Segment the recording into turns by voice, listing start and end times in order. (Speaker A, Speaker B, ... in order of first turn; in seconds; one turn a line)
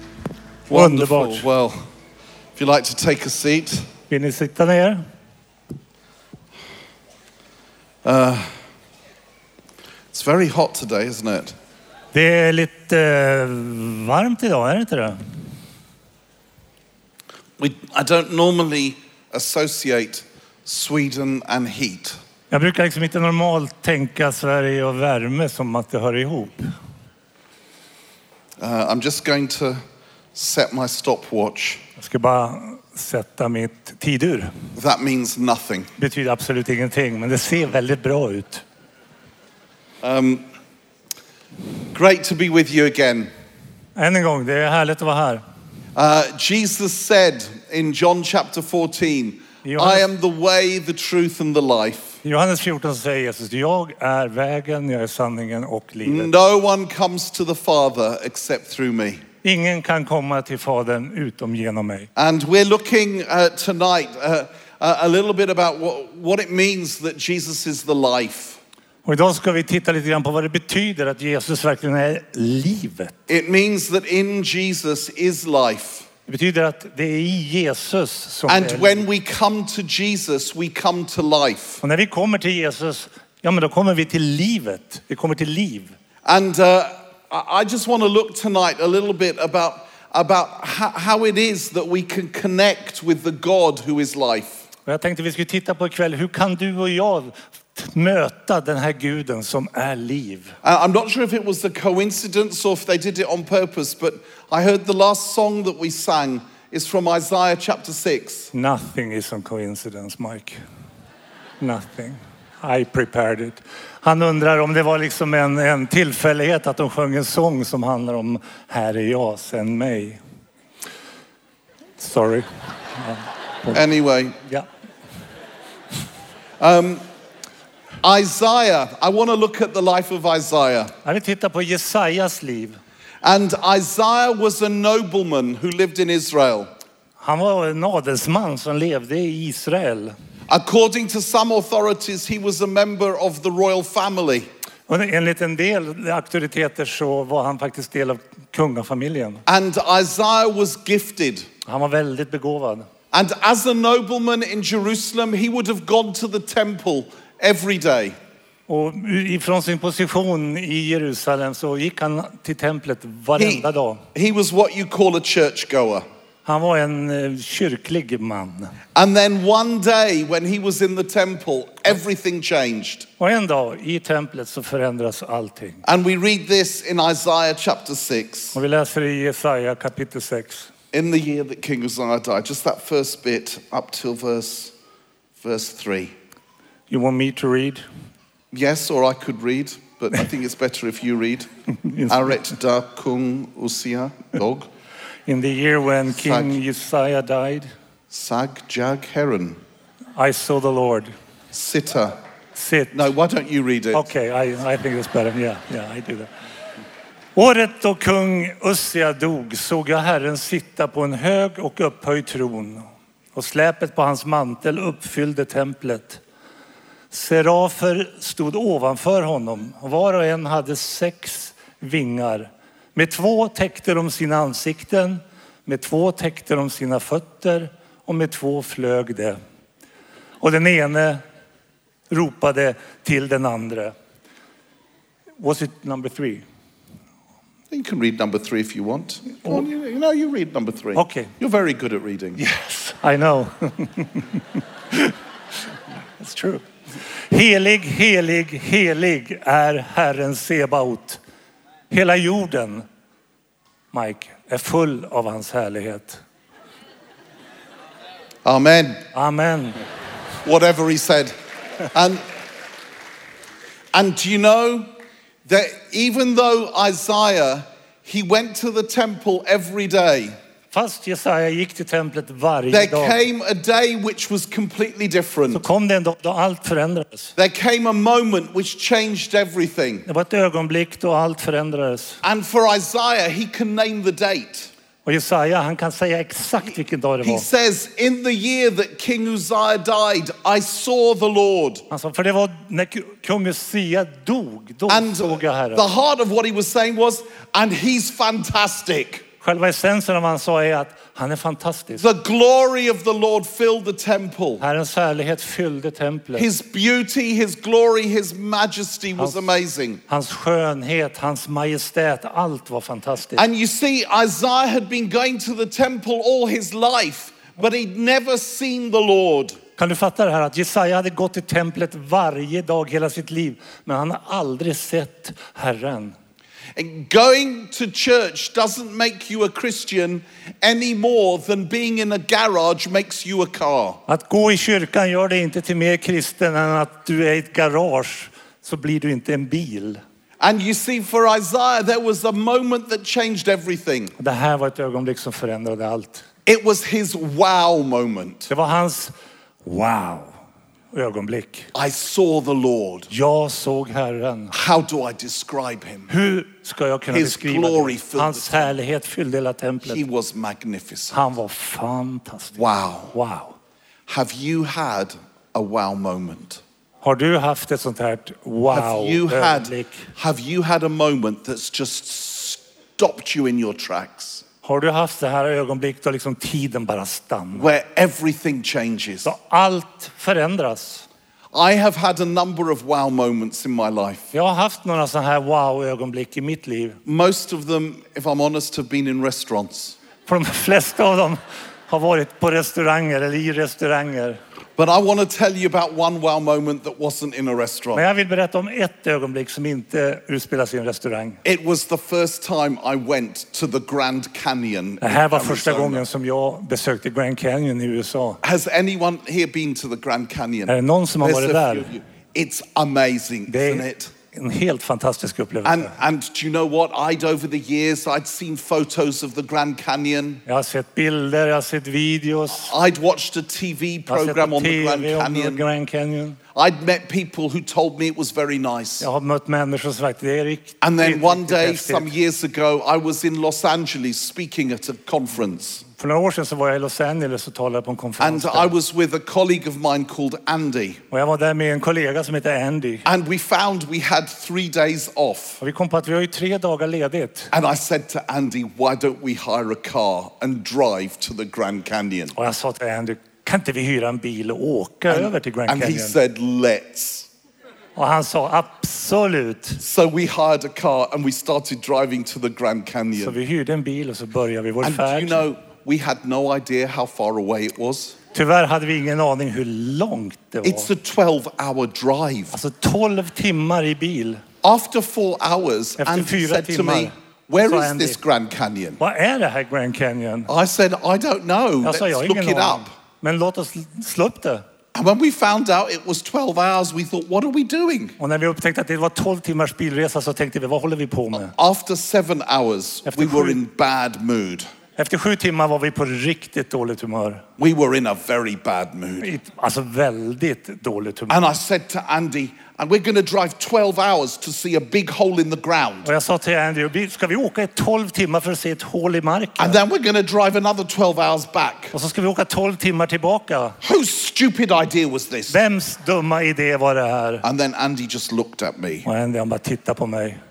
Speaker A: 0.7-1.9
Speaker B: 0.7-1.5
Speaker A: 2.5-3.9
Speaker B: 4.1-5.0
Speaker A: 8.0-8.6
Speaker A: 10.1-11.6
Speaker B: 12.1-15.2
Speaker A: 17.6-22.1
Speaker B: 22.5-26.7
Speaker A: 28.6-29.8
Speaker A: 30.3-31.8
Speaker B: 32.0-34.6
Speaker A: 34.7-35.9
Speaker B: 36.0-38.6
Speaker A: 40.0-40.4
Speaker A: 41.9-43.3
Speaker B: 44.0-45.4
Speaker A: 45.9-52.2
Speaker B: 49.6-50.1
Speaker B: 52.2-56.3
Speaker A: 56.0-59.2
Speaker B: 59.4-62.1
Speaker A: 62.1-68.6
Speaker B: 69.0-73.1
Speaker A: 73.3-76.1
Speaker B: 76.3-79.0
Speaker A: 78.5-81.8
Speaker B: 81.8-85.9
Speaker A: 86.2-94.6
Speaker B: 94.8-100.5
Speaker A: 100.6-108.5
Speaker B: 108.5-110.6
Speaker B: 111.6-120.2
Speaker B: 122.0-123.8
Speaker A: 123.7-124.3
Speaker A: 126.6-127.0
Speaker A: 128.0-130.9
Speaker B: 131.0-132.8
Speaker A: 133.2-136.7
Speaker B: 137.2-140.1
Speaker A: 140.5-144.4
Speaker B: 144.9-149.4
Speaker A: 149.4-151.4
Speaker B: 151.7-152.8
Speaker A: 153.1-158.1
Speaker B: 158.7-164.0
Speaker A: 163.4-166.0
Speaker B: 166.4-168.7
Speaker A: 168.9-173.1
Speaker B: 173.2-175.8
Speaker A: 175.8-178.6
Speaker B: 178.5-180.7
Speaker A: 180.9-184.7
Speaker A: 185.4-186.1
Speaker B: 186.9-187.8
Speaker A: 188.5-191.5
Speaker B: 191.7-192.5
Speaker A: 192.1-194.7
Speaker B: 195.3-197.7
Speaker A: 196.1-196.6
Speaker A: 198.1-199.6
Speaker B: 200.2-201.1
Speaker A: 201.5-202.1
Speaker B: 202.5-203.0
Speaker A: 202.9-204.0
Speaker B: 203.9-206.3
Speaker B: 207.3-216.2
Speaker B: 217.1-229.4
Speaker B: 230.4-231.2
Speaker B: 232.1-233.9
Speaker B: 235.4-236.4
Speaker A: 237.7-242.4
Speaker B: 240.9-241.3
Speaker B: 242.4-245.2
Speaker B: 246.2-246.7
Speaker B: 247.3-251.2
Speaker B: 251.9-252.8
Speaker B: 253.9-256.2
Speaker A: 258.4-259.0
Speaker B: 259.1-259.8
Speaker A: 260.4-261.3
Speaker A: 261.9-262.2
Speaker A: 263.9-264.9
Speaker A: 265.4-270.3
Speaker B: 270.7-273.2
Speaker A: 272.7-275.6
Speaker B: 275.5-277.3
Speaker A: 277.4-280.1
Speaker B: 280.1-282.2
Speaker A: 282.2-284.7
Speaker B: 285.0-287.4
Speaker A: 287.2-291.8
Speaker B: 291.9-295.9
Speaker A: 294.9-299.2
Speaker B: 299.4-302.0
Speaker A: 302.0-304.6
Speaker B: 304.6-306.5
Speaker A: 306.3-310.0
Speaker B: 309.1-309.5
Speaker B: 310.1-313.4
Speaker A: 313.4-319.6
Speaker B: 319.8-326.1
Speaker A: 326.8-334.0
Speaker B: 334.1-340.0
Speaker A: 340.4-344.1
Speaker B: 344.2-346.2
Speaker A: 346.4-348.5
Speaker B: 348.5-349.1
Speaker B: 349.6-350.4
Speaker B: 350.9-351.7
Speaker A: 351.7-353.1
Speaker B: 353.1-354.5
Speaker A: 354.5-356.1
Speaker B: 356.1-360.0
Speaker A: 357.1-358.7
Speaker A: 359.8-361.2
Speaker B: 361.1-363.6
Speaker A: 362.6-363.1
Speaker A: 364.1-366.6
Speaker B: 367.0-370.1
Speaker A: 368.7-374.4
Speaker B: 374.6-377.7
Speaker A: 377.5-379.3
Speaker B: 379.2-381.1
Speaker A: 381.5-384.3
Speaker B: 384.3-387.0
Speaker A: 387.1-390.0
Speaker B: 390.2-394.4
Speaker A: 394.8-398.0
Speaker B: 397.9-401.4
Speaker A: 401.4-406.1
Speaker B: 405.0-408.4
Speaker A: 408.4-414.1
Speaker B: 410.7-411.9
Speaker B: 413.5-415.9
Speaker A: 415.6-420.4
Speaker B: 420.4-422.8
Speaker A: 422.6-425.6
Speaker B: 424.1-426.4
Speaker A: 426.5-429.1
Speaker B: 429.0-432.1
Speaker A: 430.8-435.8
Speaker B: 435.9-438.7
Speaker A: 438.2-441.0
Speaker B: 441.1-443.1
Speaker A: 443.0-445.6
Speaker B: 445.6-447.5
Speaker A: 447.5-452.3
Speaker B: 452.3-456.2
Speaker A: 455.1-457.3
Speaker B: 457.9-459.8
Speaker A: 459.8-463.4
Speaker B: 463.2-465.4
Speaker A: 464.8-468.2
Speaker B: 468.3-470.9
Speaker A: 470.6-472.6
Speaker B: 472.5-474.4
Speaker A: 474.6-479.0
Speaker B: 476.0-478.2
Speaker B: 479.0-480.5
Speaker A: 480.5-482.9
Speaker B: 481.8-484.6
Speaker A: 484.9-488.2
Speaker B: 488.2-491.5
Speaker A: 491.3-494.6
Speaker B: 493.1-493.6
Speaker B: 495.0-497.4
Speaker A: 497.6-499.3
Speaker B: 499.2-501.5
Speaker A: 501.3-506.1
Speaker B: 506.0-509.8
Speaker A: 509.6-511.9
Speaker B: 511.9-513.8
Speaker A: 513.8-515.6
Speaker B: 515.5-517.4
Speaker A: 517.4-519.1
Speaker B: 519.0-520.4